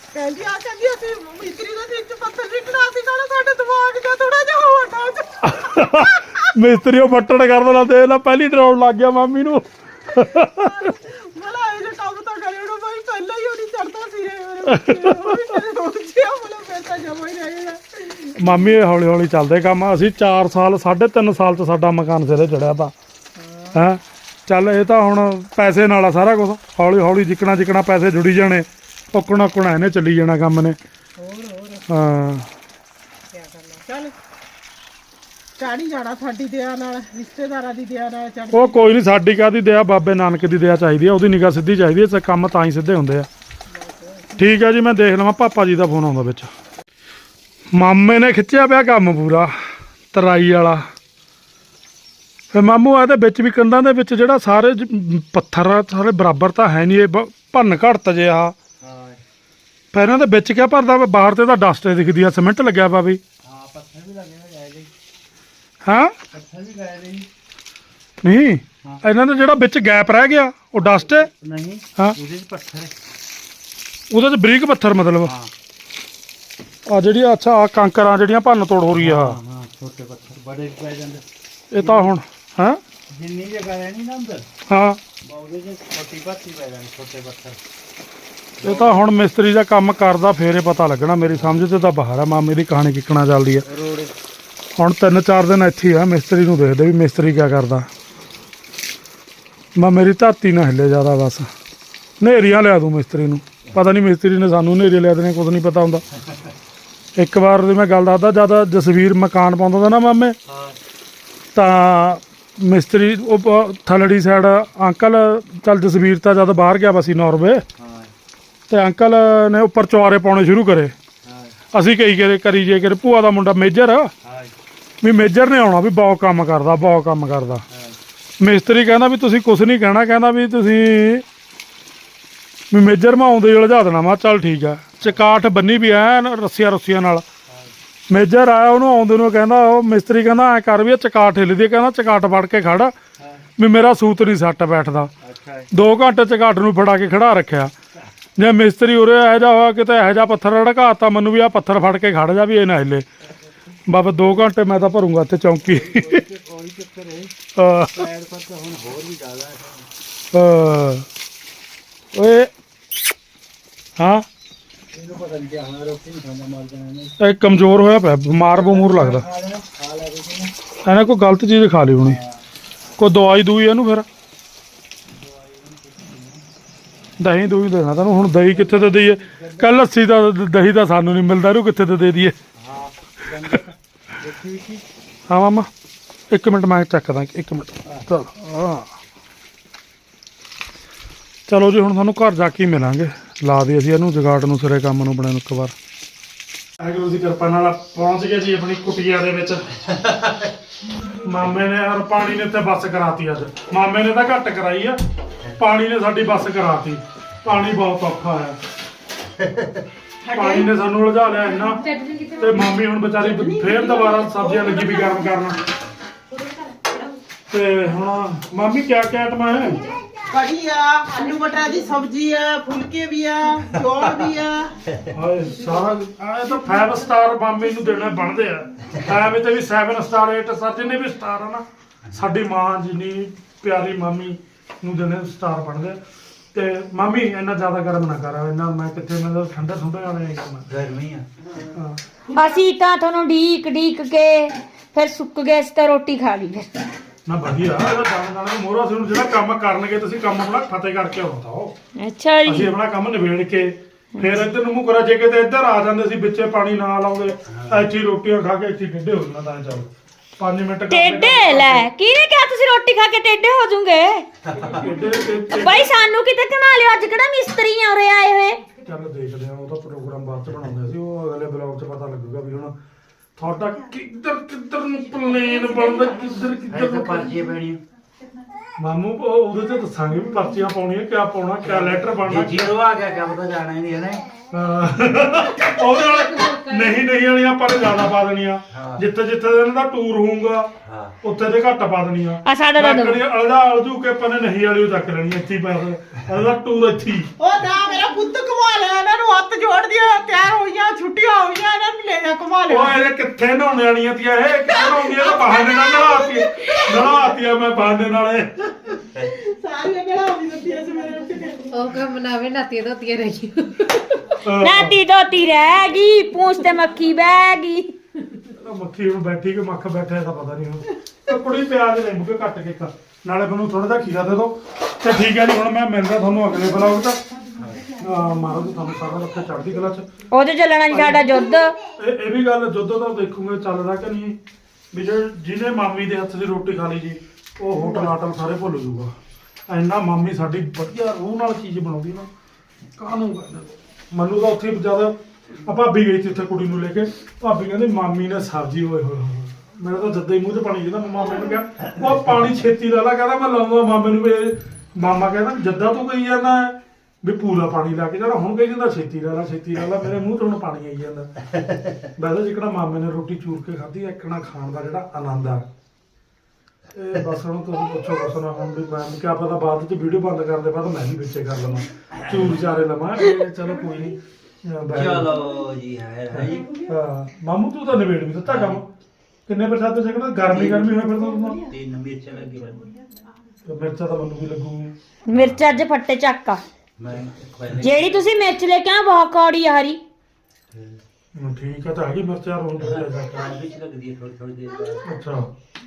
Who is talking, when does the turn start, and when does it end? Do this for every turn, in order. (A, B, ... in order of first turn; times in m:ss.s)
0:00.1-0:06.5 A
0:05.4-0:10.9 B
0:10.6-0:18.8 A
0:14.7-0:15.6 B
0:18.4-0:22.9 B
0:23.4-0:23.8 A
0:23.7-0:30.8 B
0:31.2-0:31.9 A
0:31.9-0:32.5 B
0:33.3-0:34.1 A
0:35.6-0:39.0 A
0:38.5-0:43.3 B
0:43.7-0:44.6 A
0:44.4-0:46.5 B
0:47.7-0:49.5 B
0:50.1-0:50.9 B
0:52.5-0:58.6 B
0:58.8-0:59.2 C
0:59.9-1:03.2 B
1:03.4-1:04.9 C
1:05.8-1:06.2 B
1:06.3-1:07.3 C
1:08.2-1:11.3 B
1:10.8-1:12.9 C
1:14.1-1:15.3 B
1:15.2-1:15.5 C
1:16.9-1:19.4 B
1:19.0-1:22.1 C
1:21.7-1:22.8 B
1:23.1-1:24.5 C
1:24.7-1:25.0 B
1:25.2-1:27.6 C
1:28.6-1:29.0 C
1:28.6-1:33.7 B
1:31.3-1:31.6 C
1:33.6-1:34.1 C
1:34.8-1:37.9 B
1:39.8-1:41.5 B
1:42.2-1:46.0 B
1:47.2-1:50.4 B
1:50.5-1:50.8 C
1:51.6-1:57.6 B
1:57.8-1:58.1 C
1:58.7-2:01.0 B
2:01.2-2:01.6 C
2:01.7-2:04.1 B
2:04.2-2:04.5 C
2:05.0-2:07.6 B
2:07.7-2:08.0 C
2:08.4-2:11.2 B
2:12.7-2:17.2 B
2:18.1-2:22.9 B
2:23.2-2:23.5 C
2:23.6-2:25.1 B
2:25.2-2:25.7 C
2:25.7-2:27.7 B
2:28.4-2:33.1 B
2:33.9-2:36.2 B
2:35.7-2:39.9 C
2:37.6-2:38.1 B
2:40.3-2:41.1 B
2:42.1-2:42.5 B
2:44.0-2:44.3 B
2:44.9-2:47.2 C
2:47.2-2:49.2 B
2:48.5-2:50.5 C
2:50.8-2:52.2 B
2:52.0-2:52.4 C
2:53.0-2:54.1 B
2:55.1-2:56.4 C
2:57.2-3:02.4 B
2:58.5-2:59.9 C
3:02.6-3:04.8 C
3:05.3-3:05.7 B
3:06.3-3:08.9 B
3:11.5-3:15.7 B
3:16.8-3:19.7 B
3:19.9-3:20.5 C
3:21.1-3:25.0 B
3:25.6-3:28.6 B
3:29.4-3:29.8 C
3:30.2-3:30.7 A
3:30.3-3:31.9 B
3:31.5-3:32.8 D
3:32.4-3:35.6 B
3:33.2-3:35.4 A
3:37.5-3:39.9 B
3:40.3-3:44.7 A
3:44.0-3:44.2 C
3:45.1-3:56.0 B
3:56.5-4:00.7 B
4:00.7-4:01.7 C
4:01.8-4:02.0 B
4:02.3-4:06.7 E
4:07.3-4:11.8 B
4:12.0-4:12.7 E
4:12.4-4:21.9 B
4:17.5-4:17.9 C
4:20.9-4:24.3 E
4:24.4-4:25.0 C
4:24.6-4:26.0 B
4:25.5-4:28.6 E
4:28.8-4:32.7 B
4:33.4-4:37.4 B
4:36.7-4:37.8 C
4:38.8-4:42.8 B
4:41.6-4:44.3 C
4:44.5-4:50.7 B
4:46.3-4:46.9 D
4:48.7-4:49.0 C
4:50.8-4:51.2 C
4:51.2-4:57.3 B
4:52.4-4:53.2 E
4:57.4-5:03.0 A
5:02.7-5:09.0 B
5:04.8-5:07.3 A
5:09.2-5:11.7 A
5:11.7-5:14.4 D
5:14.4-5:15.0 B
5:14.6-5:18.0 E
5:18.5-5:27.2 B
5:27.6-5:27.9 C
5:28.0-5:30.1 B
5:30.3-5:31.8 E
5:30.9-5:31.3 B
5:32.0-5:34.4 B
5:34.9-5:39.1 B
5:39.7-5:42.3 B
5:43.0-6:01.3 B
6:02.2-6:05.7 B
6:06.9-6:15.4 B
6:12.1-6:12.6 C
6:14.9-6:16.7 C
6:16.3-6:18.9 B
6:18.4-6:18.8 C
6:19.5-6:21.6 B
6:20.5-6:23.0 C
6:23.7-6:24.9 B
6:25.3-6:26.6 E
6:25.3-6:25.8 C
6:27.0-6:28.3 C
6:27.8-6:30.0 E
6:30.7-6:31.0 C
6:31.4-6:33.6 B
6:32.8-6:35.2 C
6:35.0-6:35.5 B